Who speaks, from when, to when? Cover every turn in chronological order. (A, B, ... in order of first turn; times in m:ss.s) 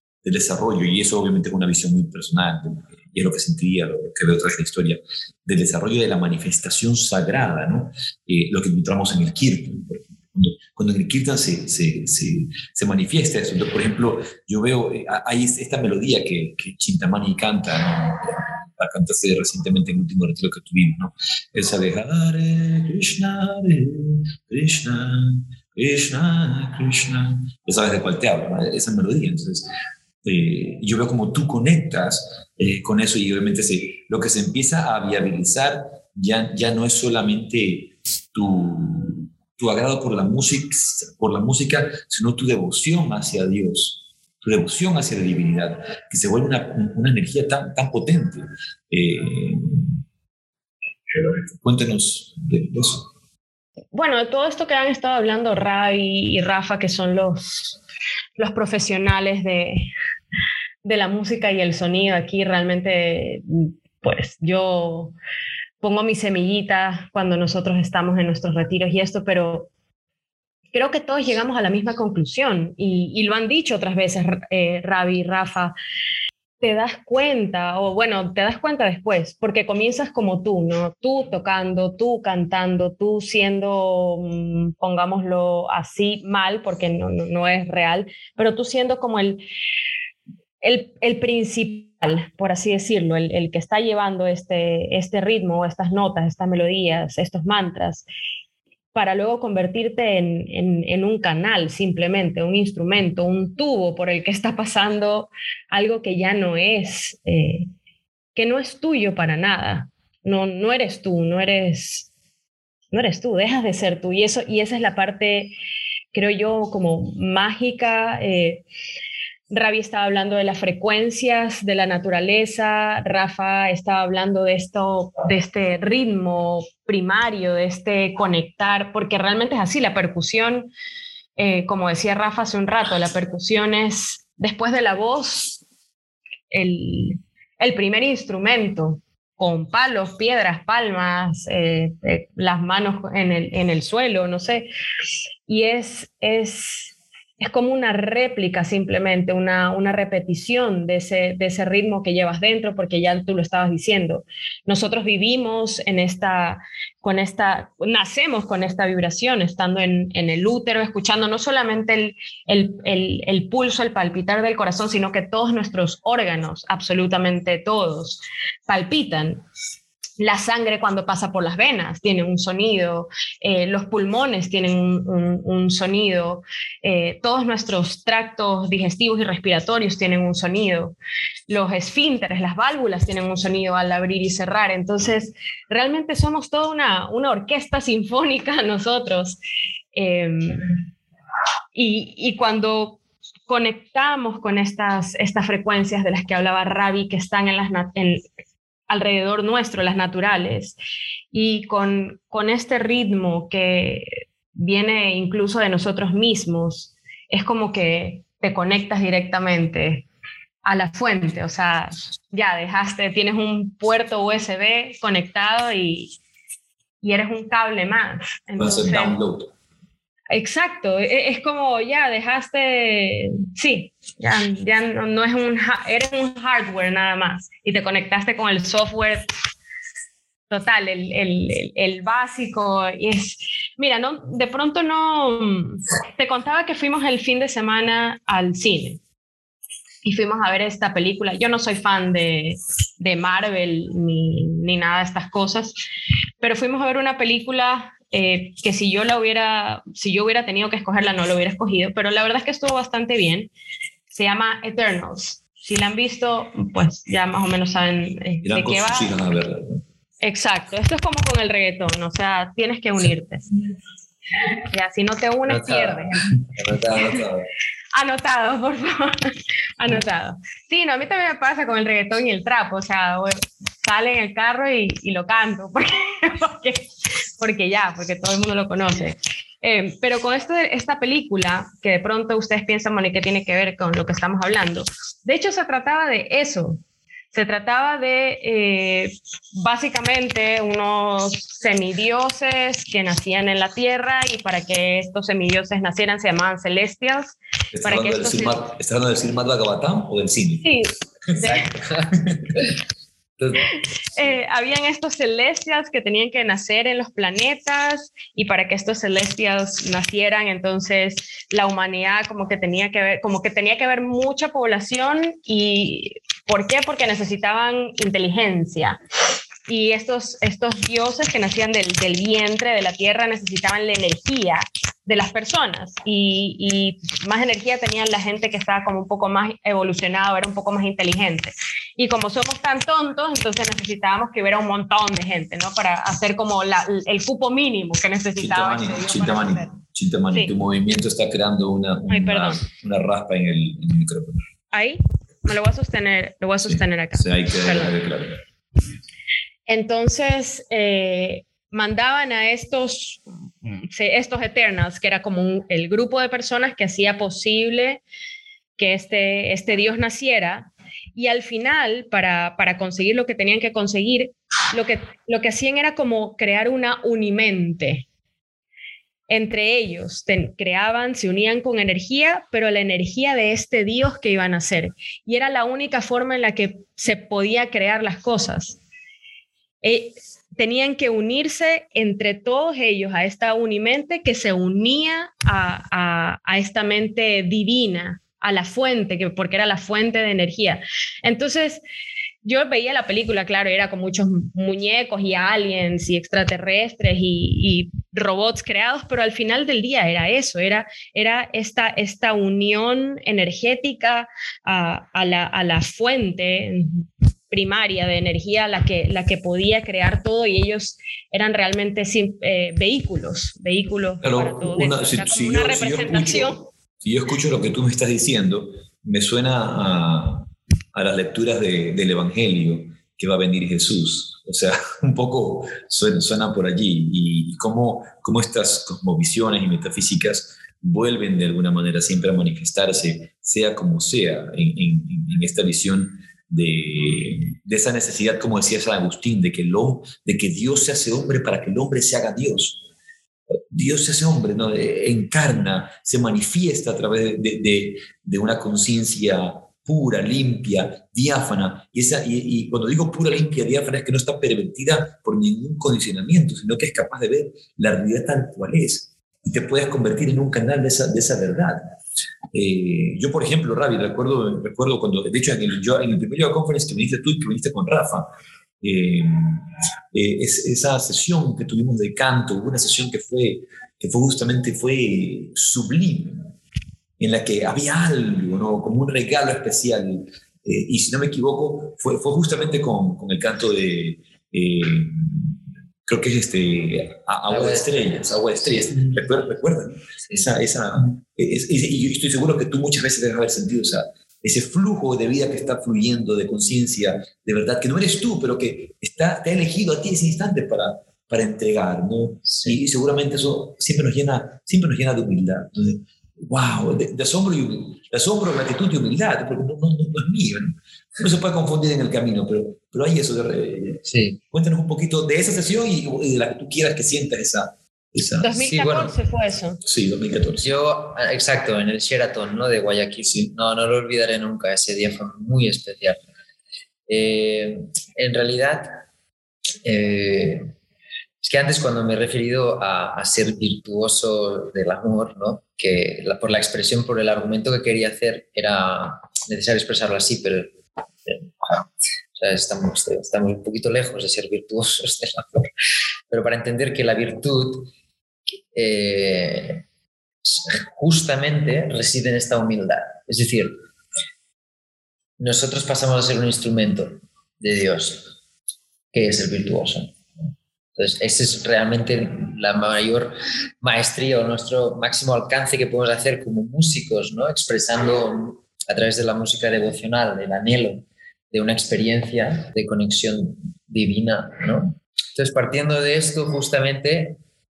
0:00.2-0:29.7 A
0:30.2-0:50.0 A
0:51.1-0:53.1 A
0:53.9-0:57.8 B
0:58.4-0:59.9 B
1:00.8-1:05.1 B
1:05.8-1:09.7 B
1:10.7-1:15.8 B
1:16.6-1:29.4 B
1:30.6-1:38.0 B
1:38.9-1:47.7 B
1:48.4-1:52.1 B
1:52.9-1:55.5 B
1:56.1-1:58.6 B
1:59.5-2:10.7 B
2:11.4-2:15.6 B
2:16.5-2:24.7 B
2:25.5-2:49.4 B
2:50.2-3:01.0 B
3:01.5-3:09.4 B
3:09.9-3:10.8 B
3:11.7-3:18.2 B
3:18.9-3:20.8 B
3:21.3-3:30.0 B
3:30.6-3:36.2 B
3:37.0-3:39.2 B
3:38.6-3:39.5 A
3:40.3-3:49.3 B
3:50.5-3:59.0 B
4:00.0-4:05.8 B
4:06.4-4:13.5 B
4:14.1-4:19.2 B
4:18.4-4:19.8 A
4:20.2-4:23.5 B
4:24.7-4:26.2 B
4:25.5-4:27.5 C
4:26.9-4:27.2 B
4:28.0-4:46.8 B
4:47.3-4:58.6 B
4:57.7-5:00.7 A
5:00.6-5:01.7 B
5:01.4-5:02.7 C
5:02.2-5:02.4 A
5:03.4-5:04.3 C
5:04.2-5:19.0 B
5:19.7-5:39.7 B
5:38.4-5:44.4 A
5:42.1-5:42.6 B
5:44.7-5:48.0 B
5:46.6-5:48.4 A
5:49.7-5:58.0 B
5:58.8-6:08.0 B
6:09.3-6:18.8 B
6:19.8-6:31.8 B
6:32.4-6:56.6 B
6:54.2-7:22.8 A
7:23.7-7:42.0 A
7:42.5-7:56.5 A
7:57.2-8:38.6 A
8:07.5-8:09.2 C
8:22.4-8:22.8 C
8:34.1-8:34.4 C
8:38.4-8:39.8 B
8:38.6-8:39.2 C
8:39.8-8:40.7 A
8:40.6-8:46.2 C
8:47.1-8:49.0 C
8:49.8-8:50.7 C
8:51.4-9:00.7 C
9:01.3-9:05.7 C
9:06.3-9:07.9 C
9:08.7-9:09.8 C
9:10.4-9:13.8 C
9:15.4-9:18.3 C
9:19.1-9:20.2 C
9:21.0-9:37.4 C